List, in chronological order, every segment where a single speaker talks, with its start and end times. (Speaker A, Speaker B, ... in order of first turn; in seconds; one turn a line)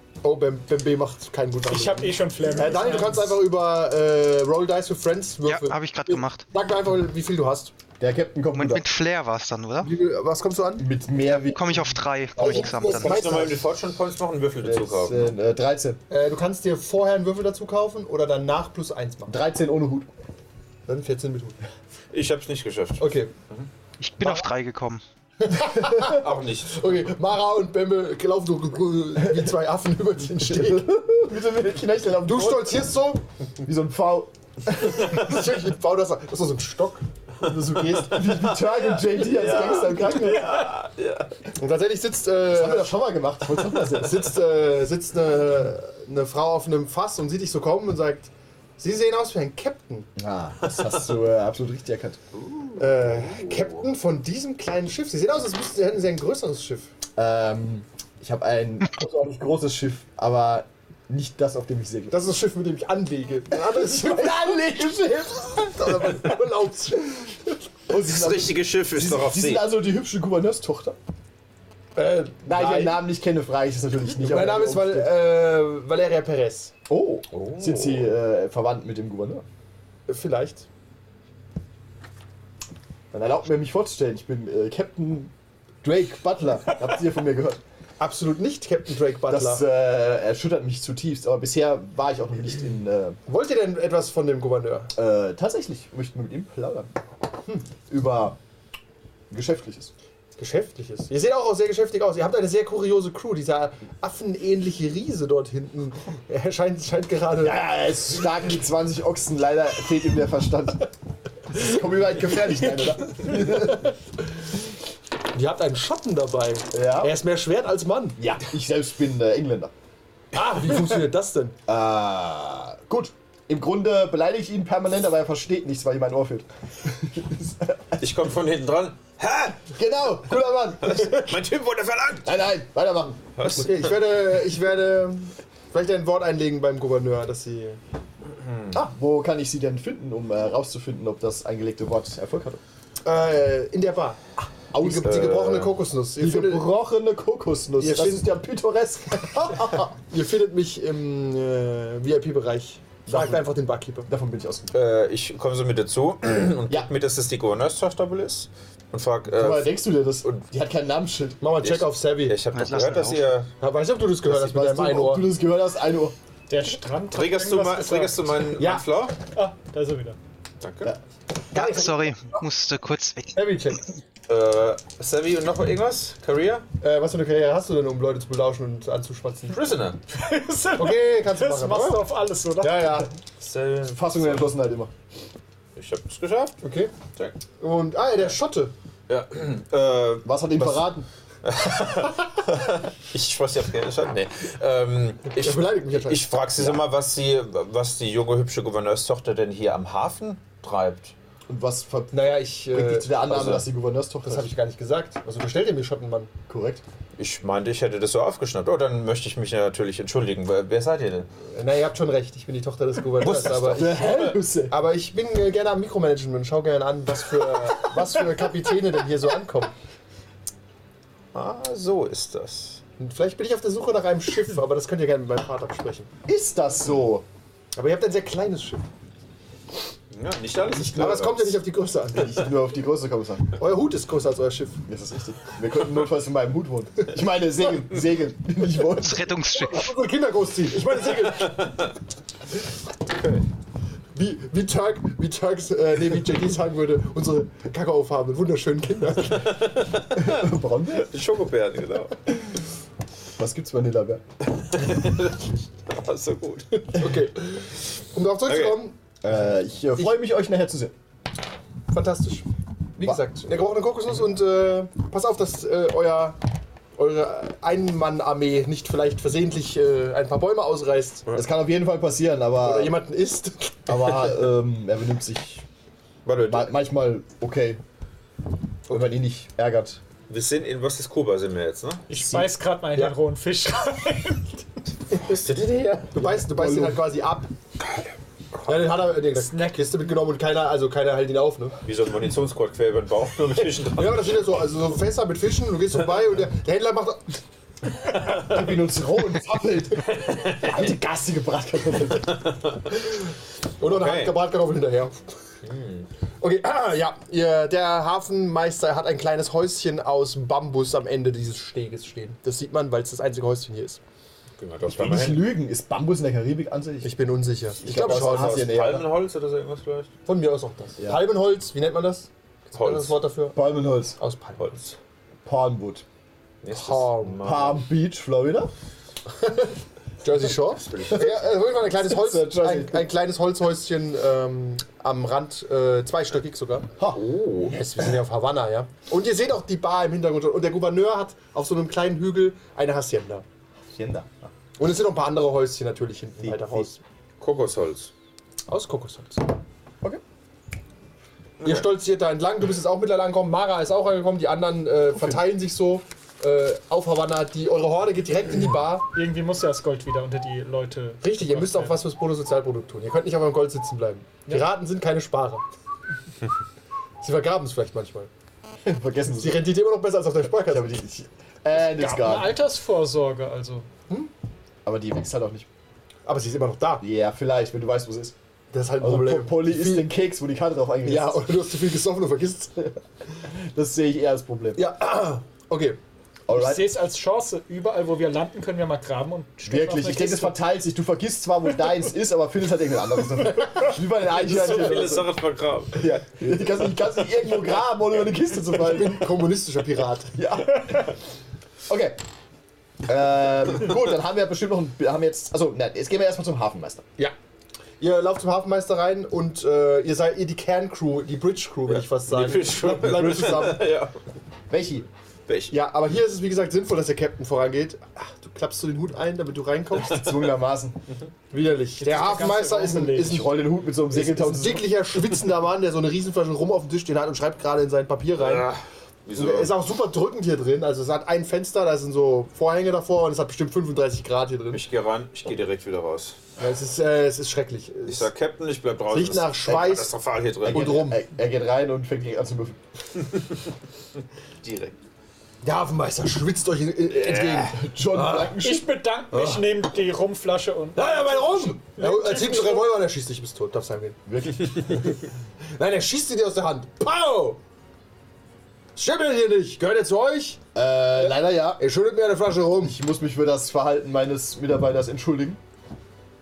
Speaker A: 0.2-7.7
Speaker B: 1.7-3.4
Speaker C: 5.4-6.4
Speaker D: 8.0-8.8
Speaker C: 8.5-9.9
Speaker A: 9.8-10.9
Speaker D: 10.8-11.8
Speaker C: 11.5-13.5
Speaker A: 12.3-13.6
Speaker E: 12.8-15.3
Speaker D: 14.6-16.0
Speaker A: 16.1-19.4
Speaker D: 19.3-20.1
Speaker A: 20.9-21.6
Speaker E: 22.1-23.7
Speaker A: 23.0-23.3
Speaker C: 24.0-25.0
Speaker A: 25.4-30.9
Speaker E: 26.0-26.8
Speaker D: 30.5-32.9
Speaker A: 32.2-33.2
Speaker D: 33.6-35.2
Speaker A: 34.8-37.0
Speaker D: 37.4-40.7
Speaker E: 37.4-41.3
Speaker A: 41.6-43.0
Speaker D: 42.5-44.3
Speaker A: 43.9-50.1
Speaker D: 50.1-52.2
Speaker E: 52.4-53.8
Speaker A: 52.8-56.9
Speaker D: 57.1-62.1
Speaker A: 62.1-64.6
Speaker D: 63.7-65.8
Speaker A: 65.6-67.5
Speaker D: 67.9-71.0
Speaker E: 68.0-69.7
Speaker A: 72.0-73.0
Speaker D: 72.5-75.2
Speaker A: 74.2-76.7
Speaker D: 76.9-79.4
Speaker A: 80.1-80.7
Speaker D: 83.1-85.3
Speaker D: 85.8-87.6
Speaker A: 88.0-89.6
Speaker D: 89.3-93.2
Speaker A: 93.3-94.9
Speaker D: 95.0-96.9
Speaker D: 97.8-98.4
Speaker D: 99.3-99.9
Speaker A: 100.4-107.7
Speaker D: 107.4-110.9
Speaker D: 111.5-113.8
Speaker A: 113.1-113.9
Speaker A: 115.3-118.4
Speaker D: 116.7-117.2
Speaker D: 118.2-119.7
Speaker A: 120.3-121.6
Speaker D: 121.7-128.0
Speaker E: 128.0-129.8
Speaker D: 129.8-131.3
Speaker E: 130.8-132.3
Speaker D: 132.2-133.4
Speaker E: 133.4-133.9
Speaker A: 133.6-137.8
Speaker E: 138.4-138.7
Speaker D: 138.7-142.6
Speaker A: 143.0-144.2
Speaker D: 144.7-145.4
Speaker A: 144.8-146.7
Speaker E: 145.0-145.7
Speaker D: 146.2-149.9
Speaker A: 147.8-148.3
Speaker A: 149.9-154.1
Speaker D: 153.1-153.5
Speaker D: 154.1-154.8
Speaker E: 154.7-160.4
Speaker D: 159.3-161.4
Speaker A: 161.4-162.4
Speaker E: 161.6-163.5
Speaker C: 162.5-163.3
Speaker A: 163.6-165.3
Speaker D: 164.2-166.1
Speaker B: 166.5-168.3
Speaker E: 167.1-169.1
Speaker A: 168.6-168.9
Speaker B: 169.3-170.2
Speaker E: 170.6-170.9
Speaker A: 171.5-172.4
Speaker C: 171.5-173.4
Speaker A: 173.3-173.8
Speaker E: 174.3-176.6
Speaker A: 176.8-179.6
Speaker E: 179.5-180.0
Speaker B: 180.1-183.1
Speaker A: 180.8-183.1
Speaker E: 183.4-184.5
Speaker D: 183.9-184.9
Speaker E: 185.8-186.6
Speaker A: 186.6-186.9
Speaker A: 187.6-188.7
Speaker E: 189.1-190.9
Speaker D: 190.2-191.1
Speaker E: 191.4-201.1
Speaker A: 195.3-196.8
Speaker D: 201.5-204.5
Speaker A: 202.1-203.6
Speaker E: 203.3-203.6
Speaker A: 204.2-206.3
Speaker D: 206.5-206.8
Speaker E: 207.2-211.3
Speaker A: 211.5-219.7
Speaker E: 213.2-213.9
Speaker D: 213.3-214.7
Speaker E: 221.3-222.8
Speaker A: 223.0-226.1
Speaker D: 226.2-227.2
Speaker A: 227.8-228.8
Speaker E: 230.1-231.6
Speaker A: 230.7-232.5
Speaker D: 232.1-233.6
Speaker A: 233.6-234.8
Speaker D: 234.9-239.3
Speaker C: 239.0-239.9
Speaker A: 239.5-241.8
Speaker E: 241.5-241.8
Speaker A: 244.1-249.6
Speaker E: 249.3-250.4
Speaker D: 250.2-251.1
Speaker E: 251.0-252.3
Speaker D: 253.4-254.2
Speaker E: 254.5-257.0
Speaker A: 256.9-259.0
Speaker E: 258.4-258.8
Speaker D: 259.2-260.9
Speaker A: 261.9-266.4
Speaker A: 267.0-271.3
Speaker D: 271.3-273.0
Speaker A: 272.6-274.2
Speaker D: 273.9-275.6
Speaker E: 276.2-276.7
Speaker D: 276.4-277.8
Speaker D: 278.9-280.0
Speaker E: 280.3-282.1
Speaker B: 282.1-284.5
Speaker D: 282.1-282.6
Speaker E: 285.2-286.1
Speaker A: 286.1-287.5
Speaker D: 286.2-287.1
Speaker A: 288.6-291.8
Speaker B: 289.5-289.9
Speaker E: 291.8-294.5
Speaker A: 293.8-297.4
Speaker A: 298.3-299.9
Speaker D: 298.4-302.5
Speaker E: 302.4-302.8
Speaker A: 303.8-305.2
Speaker E: 303.8-304.4
Speaker E: 305.6-306.1
Speaker A: 306.4-314.0
Speaker E: 314.6-315.5
Speaker D: 314.9-319.1
Speaker A: 317.0-318.7
Speaker E: 317.9-320.1
Speaker A: 320.2-323.6
Speaker E: 322.7-323.1
Speaker D: 323.5-324.2
Speaker A: 324.2-324.9
Speaker E: 324.6-324.9
Speaker D: 325.4-326.0
Speaker E: 326.6-327.8
Speaker A: 326.7-327.4
Speaker D: 327.4-328.7
Speaker A: 329.4-329.7
Speaker A: 330.2-336.9
Speaker E: 330.7-331.4
Speaker D: 331.9-333.1
Speaker E: 337.1-337.7
Speaker A: 337.7-343.4
Speaker D: 343.9-344.5
Speaker A: 344.8-347.0
Speaker D: 346.4-346.9
Speaker E: 347.4-348.1
Speaker A: 348.7-349.5
Speaker E: 351.6-351.9
Speaker A: 351.6-359.1
Speaker D: 355.1-355.4
Speaker B: 359.1-362.0
Speaker A: 361.2-365.6
Speaker A: 367.2-368.3
Speaker D: 368.8-369.8
Speaker A: 369.3-370.9
Speaker D: 370.5-372.6
Speaker B: 371.8-373.9
Speaker D: 374.8-375.7
Speaker A: 376.2-377.0
Speaker D: 377.0-378.3
Speaker A: 378.7-380.1
Speaker D: 379.0-381.5
Speaker A: 381.0-382.9
Speaker D: 383.5-384.9
Speaker A: 384.8-386.0
Speaker D: 386.5-387.0
Speaker B: 386.5-390.6
Speaker D: 389.6-395.3
Speaker E: 394.3-396.1
Speaker D: 395.9-399.3
Speaker A: 398.8-400.4
Speaker D: 400.4-401.1
Speaker D: 401.9-402.2
Speaker D: 403.0-407.0
Speaker A: 408.0-413.9
Speaker E: 411.9-414.1
Speaker D: 414.7-415.1
Speaker E: 415.5-415.8
Speaker A: 415.7-420.2
Speaker D: 420.0-421.0
Speaker A: 421.5-423.6
Speaker B: 422.0-423.5
Speaker D: 423.1-424.9
Speaker A: 424.1-428.7
Speaker E: 428.4-429.8
Speaker A: 429.3-434.8
Speaker E: 434.7-436.4
Speaker A: 436.6-438.3
Speaker E: 438.1-441.1
Speaker A: 439.1-440.1
Speaker D: 440.6-442.8
Speaker A: 440.7-441.2
Speaker E: 444.6-444.9
Speaker A: 445.6-448.5
Speaker E: 447.1-447.7
Speaker D: 447.7-448.9
Speaker B: 448.6-452.9
Speaker A: 449.3-449.7
Speaker A: 450.9-454.2
Speaker D: 454.3-455.1
Speaker A: 455.7-457.6
Speaker A: 458.9-460.6
Speaker D: 460.7-461.8
Speaker A: 461.2-463.0
Speaker D: 462.8-465.6